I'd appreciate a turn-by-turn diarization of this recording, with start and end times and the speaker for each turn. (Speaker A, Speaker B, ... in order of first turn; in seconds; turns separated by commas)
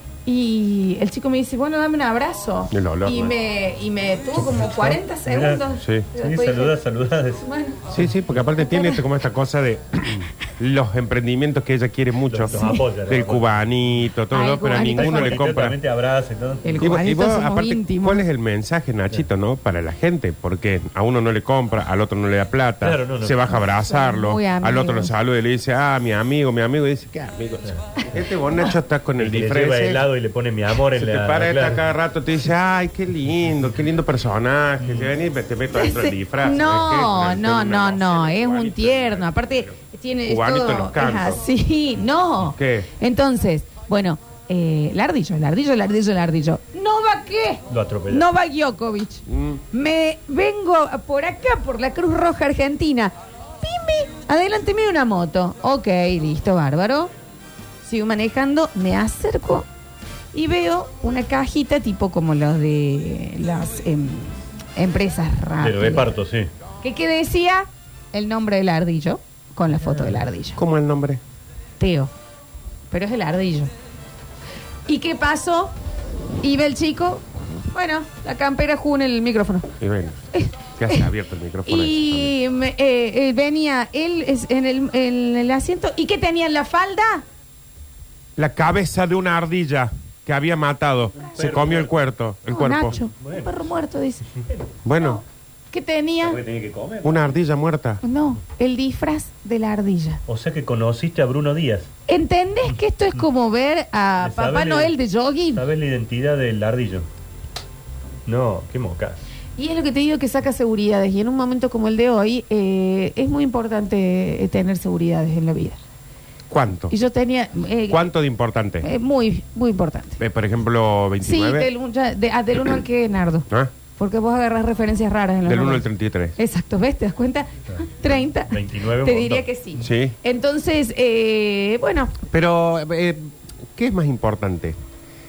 Speaker A: 0.3-6.8, Speaker B: 2.7-3.3, Speaker C: 4.4-7.4, Speaker B: 5.8-6.1, Speaker A: 7.4-7.9, Speaker B: 7.9-15.8, Speaker A: 8.6-9.0, Speaker C: 12.3-13.5, Speaker A: 12.5-12.8, Speaker A: 14.3-15.4, Speaker C: 14.7-16.9, Speaker A: 16.6-18.2, Speaker B: 16.8-30.1, Speaker C: 22.8-23.4, Speaker A: 23.5-25.1, Speaker C: 29.2-31.9, Speaker B: 30.9-41.4, Speaker C: 34.8-35.1, Speaker A: 35.7-57.1, Speaker B: 42.4-42.9, Speaker C: 47.7-48.3, Speaker B: 49.3-49.6, Speaker A: 57.8-59.7, Speaker A: 60.3-66.1, Speaker C: 65.6-66.5, Speaker A: 66.8-70.6, Speaker B: 70.6-71.2, Speaker A: 71.8-72.1, Speaker A: 72.9-73.7, Speaker A: 74.9-75.7, Speaker A: 76.4-79.7, Speaker B: 79.8-82.3, Speaker A: 80.3-81.1, Speaker A: 81.7-87.2, Speaker B: 88.4-93.0, Speaker C: 91.2-91.9, Speaker A: 92.5-94.2, Speaker C: 93.1-93.7, Speaker B: 94.8-95.2, Speaker A: 95.0-96.4, Speaker C: 96.2-97.4, Speaker B: 97.0-98.0, Speaker A: 98.0-100.2, Speaker C: 100.3-101.9, Speaker A: 102.1-105.7, Speaker C: 104.2-105.0, Speaker C: 105.5-107.1, Speaker C: 108.3-109.2, Speaker A: 109.6-115.8, Speaker B: 116.5-117.0, Speaker A: 116.9-118.1, Speaker B: 117.9-118.9, Speaker A: 118.8-120.2, Speaker B: 120.2-121.7, Speaker A: 121.2-132.2, Speaker B: 125.5-126.4, Speaker C: 127.7-129.4, Speaker B: 129.8-130.2, Speaker B: 132.3-134.8